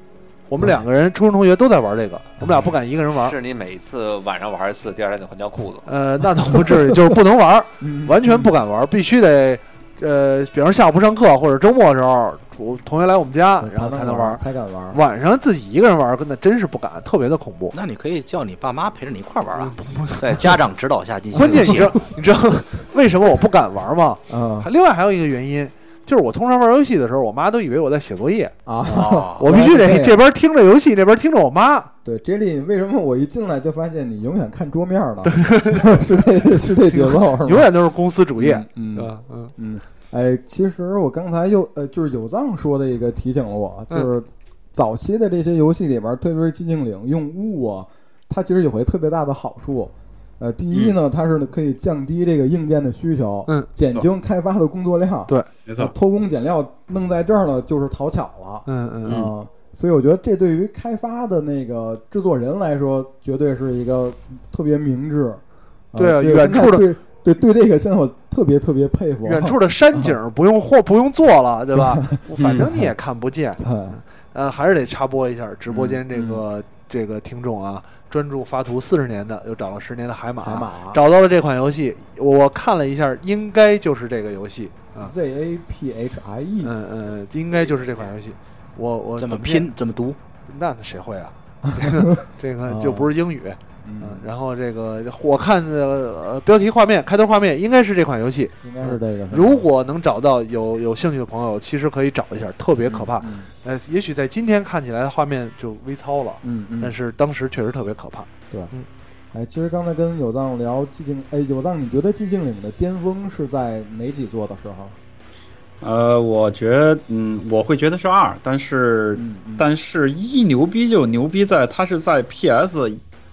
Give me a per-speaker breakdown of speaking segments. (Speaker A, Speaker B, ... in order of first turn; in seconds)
Speaker A: 0.5-3.4, 5.9-17.8, 19.6-20.6, 21.3-28.6, 29.4-31.9, 35.3-36.1, 36.6-39.5, 58.7-59.2, 66.0-66.9, 69.2-85.1, 86.6-89.7, 90.5-108.9
Speaker B: 2.4-2.7, 7.8-8.5, 13.6-15.0, 21.4-22.0, 24.3-24.7, 28.7-30.2, 32.0-37.7, 38.4-65.4, 65.9-70.2, 71.7-72.9, 73.6-74.0, 75.7-76.4, 80.4-81.0, 85.0-86.7, 91.6-93.1, 93.8-94.3, 98.6-99.7, 102.8-103.5, 106.4-107.0, 109.3-115.0, 119.1-119.7
Speaker C: 3.1-5.9
Speaker D: 17.7-22.0, 28.9-29.5, 89.2-90.2
Speaker E: 55.7-55.9, 115.8-123.0